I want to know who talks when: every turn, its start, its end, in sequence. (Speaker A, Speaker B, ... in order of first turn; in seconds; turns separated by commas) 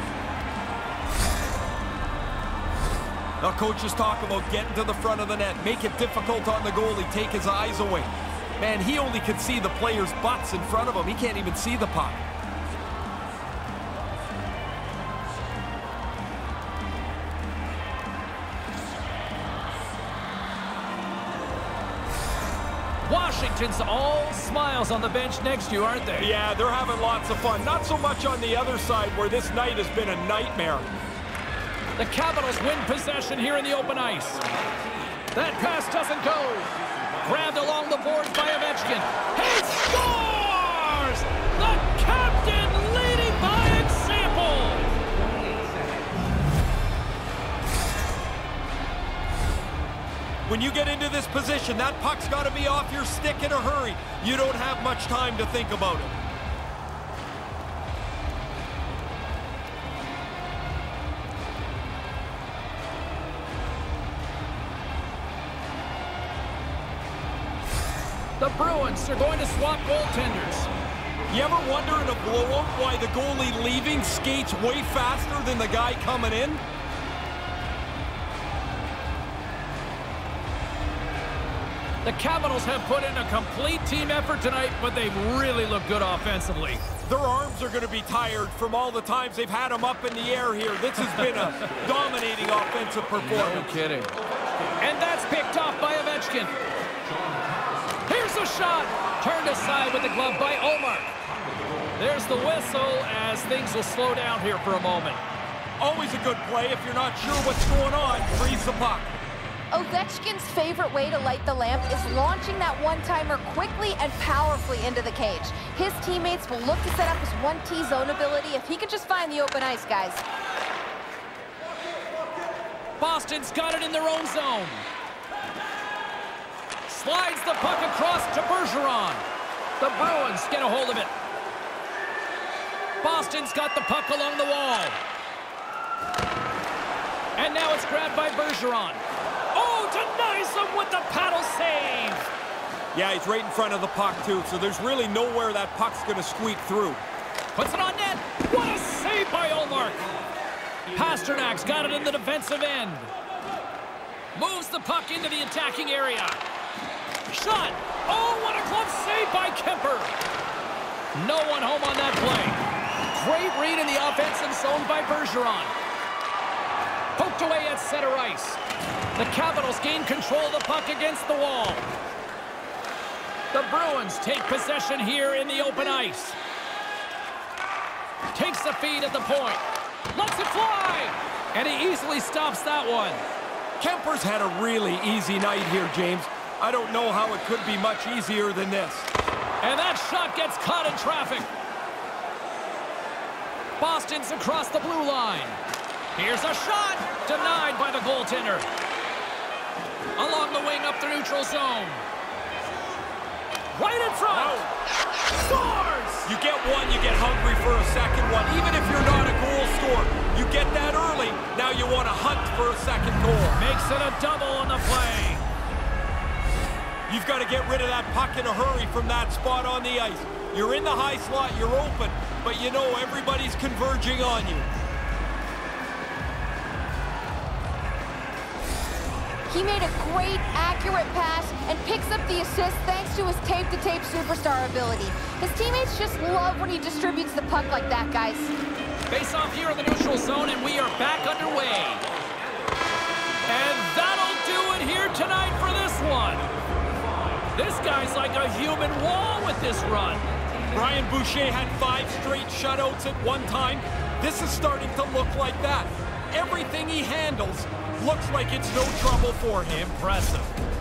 Speaker A: 3.4-12.2, Speaker B: 23.0-26.3, Speaker A: 26.2-30.9, Speaker B: 32.0-34.4, Speaker B: 35.3-44.9, Speaker A: 50.5-56.2, Speaker B: 68.4-70.7, Speaker A: 71.3-76.6, Speaker B: 82.0-86.8, Speaker A: 87.0-93.7, Speaker B: 93.3-94.2, Speaker B: 94.8-96.5, Speaker B: 98.0-101.1, Speaker B: 102.0-105.2, Speaker A: 105.8-109.1, Speaker C: 109.7-120.2, Speaker B: 123.0-124.8, Speaker B: 126.9-129.2, Speaker B: 129.8-131.1, Speaker B: 133.0-135.0, Speaker B: 137.4-142.3, Speaker A: 142.9-147.0, Speaker B: 147.5-150.0, Speaker B: 150.9-153.1, Speaker B: 154.3-156.4, Speaker B: 157.3-160.1, Speaker B: 161.1-165.7, Speaker B: 167.2-168.6, Speaker B: 169.2-171.9, Speaker B: 173.5-176.4, Speaker B: 178.3-179.6, Speaker B: 180.1-183.2, Speaker A: 183.8-189.1, Speaker B: 189.6-191.5, Speaker B: 193.8-195.6, Speaker B: 196.2-198.7, Speaker B: 200.2-202.0, Speaker B: 203.7-204.7, Speaker A: 204.3-204.7, Speaker B: 205.3-206.3, Speaker A: 206.2-213.6, Speaker B: 213.5-215.5, Speaker A: 217.1-224.7, Speaker C: 229.5-238.5, Speaker B: 239.1-242.0, Speaker B: 243.5-246.4, Speaker B: 247.5-250.2, Speaker A: 250.7-259.9, Speaker B: 259.7-260.5